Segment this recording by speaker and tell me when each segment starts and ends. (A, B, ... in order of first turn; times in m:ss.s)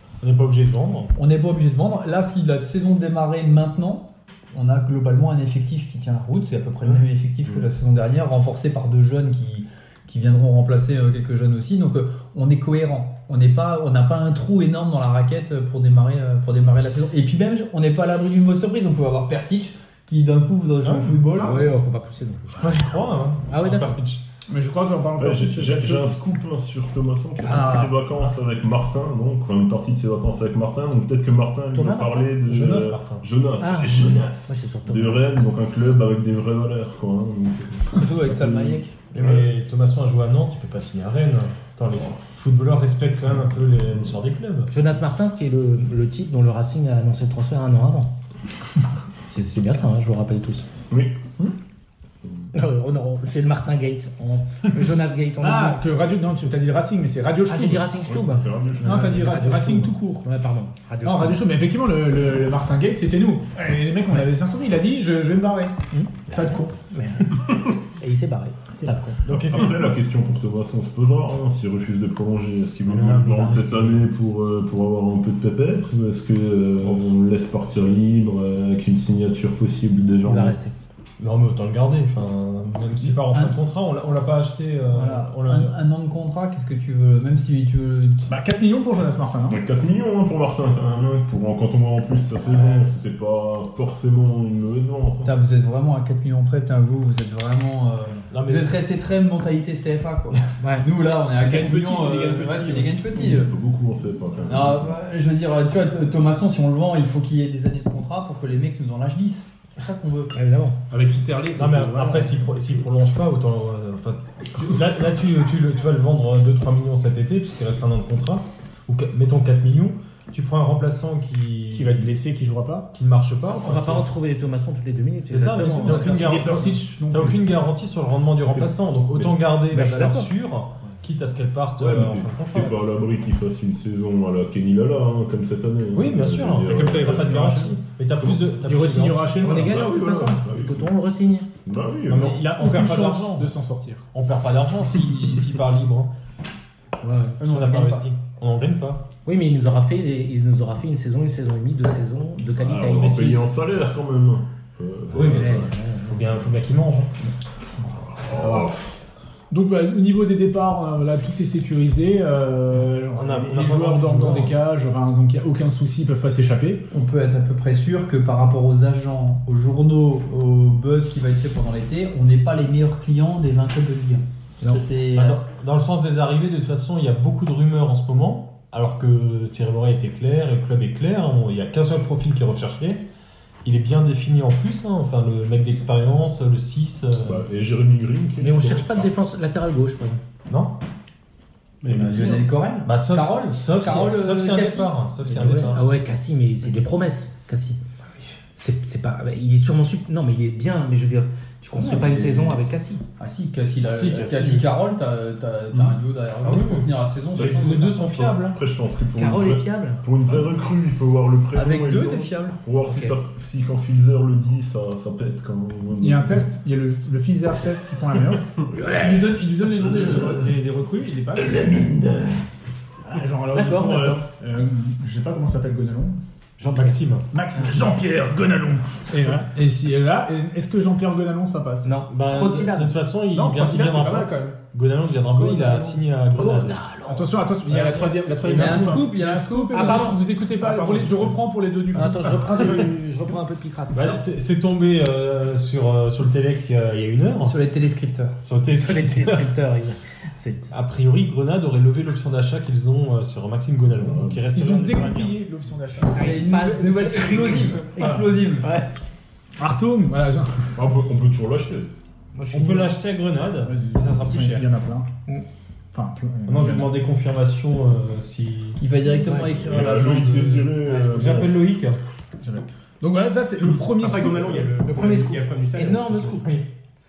0:00.2-0:01.1 A
0:01.1-0:21.7 B
0:20.8-0:21.2 A
0:21.4-0:22.7 C
0:22.6-0:24.2 A
0:23.5-0:24.0 C
0:24.5-0:26.1 D
0:25.2-0:39.5 E
0:27.5-0:27.9 B
0:31.7-0:32.3 C
0:32.5-0:33.2 A
0:33.6-0:35.4 C
0:37.9-0:38.9 B
0:39.1-0:44.7 A
0:44.7-0:48.1 C
0:49.3-0:50.6 C
0:50.9-0:51.3 E
0:52.5-0:55.8 C
0:55.4-0:57.8 D
0:57.5-1:01.4 C
0:58.0-0:59.5 E
0:58.8-1:00.3 D
1:01.0-1:06.7 D
1:05.9-1:09.2 C
1:09.2-1:09.9 A
1:09.3-1:20.6 E
1:13.0-1:13.8 A
1:20.2-1:20.7 C
1:21.2-1:25.8 A
1:23.3-1:23.6 B
1:24.9-1:28.2 B
1:28.3-1:29.6 D
1:29.5-1:35.3 E
1:32.5-1:32.8 A
1:35.2-1:43.5 B
1:38.3-1:38.8 A
1:40.6-1:40.9 C
1:41.4-1:43.0 F
1:43.1-1:45.0 E
1:44.5-1:50.3 B
1:50.3-1:50.8 C
1:50.9-1:52.6 F
1:51.5-2:02.1 A
2:01.7-2:02.9 D
2:02.9-2:04.1 A
2:03.5-2:06.2 C
2:05.3-2:12.8 A
2:05.3-2:06.7 B
2:06.0-2:07.5 D
2:09.1-2:09.4 E
2:09.7-2:10.3 C
2:11.8-2:17.4 E
2:15.9-2:19.4 A
2:16.6-2:17.8 D
2:18.6-2:19.8 D
2:19.4-2:21.5 C
2:19.4-2:20.9 E
2:21.6-2:22.4 E
2:22.1-2:23.5 A
2:22.1-2:24.0 D
2:24.1-2:26.1 A
2:27.1-2:29.0 A
2:27.4-2:28.0 B
2:29.2-2:33.4 C
2:32.6-2:36.5 E
2:35.1-2:37.1 A
2:35.2-2:36.1 C
2:37.9-2:38.9 E
2:38.3-2:38.7 D
2:39.5-2:46.8 D
2:43.1-2:44.6 A
2:46.9-2:55.4 B
2:55.1-3:03.0 A
3:03.6-3:07.4 A
3:07.2-3:09.1 E
3:08.4-3:10.2 C
3:10.5-3:10.7 A
3:11.8-3:12.1 E
3:11.9-3:15.8 B
3:12.8-3:15.8 A
3:15.4-3:17.8 C
3:18.6-3:23.0 C
3:21.8-3:22.6 B
3:23.2-3:28.1 B
3:23.8-3:24.7 A
3:25.7-3:28.6 A
3:27.3-3:36.5 E
3:29.1-3:30.0 C
3:31.5-3:32.6 B
3:32.8-3:33.2 C
3:36.0-3:41.7 D
3:41.6-3:42.3 E
3:43.0-3:46.2 D
3:43.5-3:44.2 C
3:46.6-3:47.0 C
3:46.7-3:47.2 A
3:47.3-3:51.9 D
3:51.8-3:52.9 C
3:52.1-3:56.8 A
3:53.3-3:54.6 F
3:55.3-3:56.6 F
3:56.3-3:57.3 C
3:57.0-4:02.8 D
3:57.6-3:59.1 F
3:58.5-4:00.2 B
3:59.7-4:00.2 C
4:01.9-4:04.2 C
4:03.9-4:07.6 A
4:07.4-4:08.4 B
4:08.4-4:09.5 A
4:08.7-4:10.7 C
4:10.7-4:15.4 A
4:14.0-4:14.4 E
4:14.5-4:16.5 D
4:16.1-4:18.7 B
4:16.1-4:18.1 C
4:18.6-4:19.1 C
4:19.6-4:20.7 D
4:20.7-4:21.9 E
4:22.3-4:22.9 C
4:22.5-4:24.7 A
4:23.6-4:25.1 D
4:25.9-4:26.9 D
4:26.4-4:28.8 A
4:28.8-4:30.9 B
4:29.3-4:31.6 E
4:30.9-4:32.0 A
4:32.4-4:34.8 D
4:33.8-4:36.6 F
4:34.9-4:36.6 C